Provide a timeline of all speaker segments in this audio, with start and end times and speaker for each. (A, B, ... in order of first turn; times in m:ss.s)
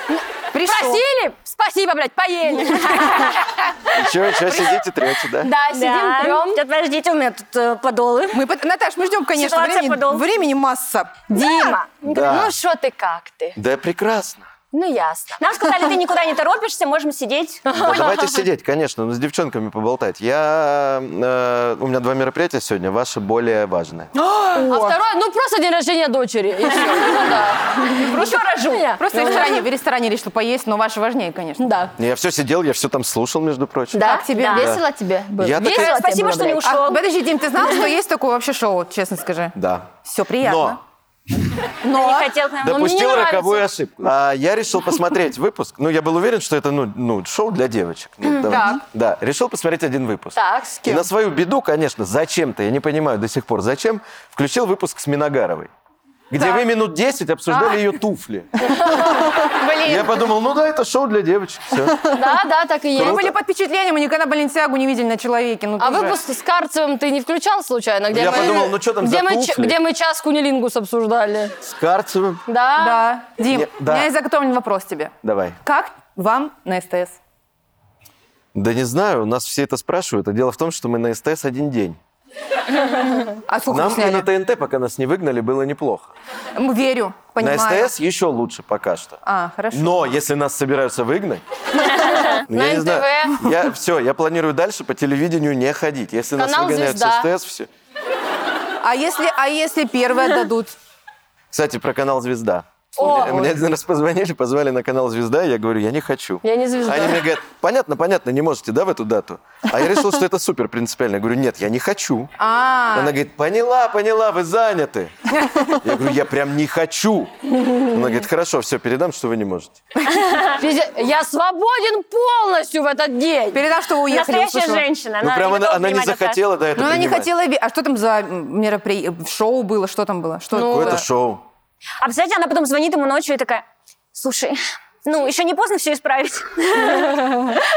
0:00.1-0:03.4 A
0:00.5-0:01.0 B
0:03.9-0:05.5 C
0:05.4-0:06.6 A
0:05.7-0:08.4 D
0:08.3-0:11.7 B
0:09.3-0:10.3 D
0:11.3-0:13.6 A
0:12.0-0:12.5 C
0:13.6-0:14.4 C
0:14.7-0:15.4 A
0:15.4-0:17.6 D
0:17.6-0:18.4 A
0:17.7-0:24.1 C
0:24.2-0:25.0 B
0:24.5-0:28.0 A
0:27.9-0:29.5 D
0:28.0-0:31.6 B
0:28.7-0:29.6 A
0:31.6-0:31.9 A
0:32.0-0:34.0 C
0:33.9-0:36.7 A
0:34.0-0:34.8 B
0:34.3-0:34.7 D
0:34.6-0:34.8 C
0:35.4-0:36.1 C
0:35.6-0:37.0 D
0:36.6-0:40.8 B
0:37.6-0:37.9 D
0:39.5-0:40.8 C
0:41.8-0:42.4 B
0:41.9-0:42.8 D
0:42.6-0:55.7 C
0:42.6-0:43.6 A
0:48.4-0:48.8 B
0:50.3-0:51.0 A
0:56.3-0:58.7 C
0:58.6-0:59.3 A
0:59.4-1:00.3 D
0:59.8-1:02.1 C
1:02.1-1:03.2 A
1:03.0-1:03.3 C
1:03.0-1:06.2 B
1:05.8-1:11.5 A
1:08.1-1:09.8 C
1:11.6-1:12.4 C
1:12.5-1:13.1 A
1:12.8-1:17.2 B
1:13.5-1:14.1 C
1:15.2-1:15.6 C
1:18.5-1:22.0 C
1:23.5-1:24.2 B
1:23.7-1:26.1 C
1:26.6-1:27.9 B
1:27.4-1:29.2 C
1:29.2-1:30.0 B
1:29.7-1:31.4 C
1:31.8-1:33.5 A
1:32.4-1:37.7 C
1:36.4-1:37.3 A
1:38.8-1:40.7 B
1:41.5-1:52.3 C
1:43.0-1:43.5 A
1:46.4-1:47.2 A
1:52.4-1:53.1 B
1:52.9-1:55.1 C
1:55.3-1:55.7 B
1:55.8-1:59.8 C
2:00.5-2:03.6 A
2:03.5-2:04.8 B
2:04.1-2:06.4 D
2:05.2-2:07.3 C
2:06.8-2:11.0 B
2:10.5-2:11.4 C
2:10.5-2:11.0 A
2:12.0-2:17.6 D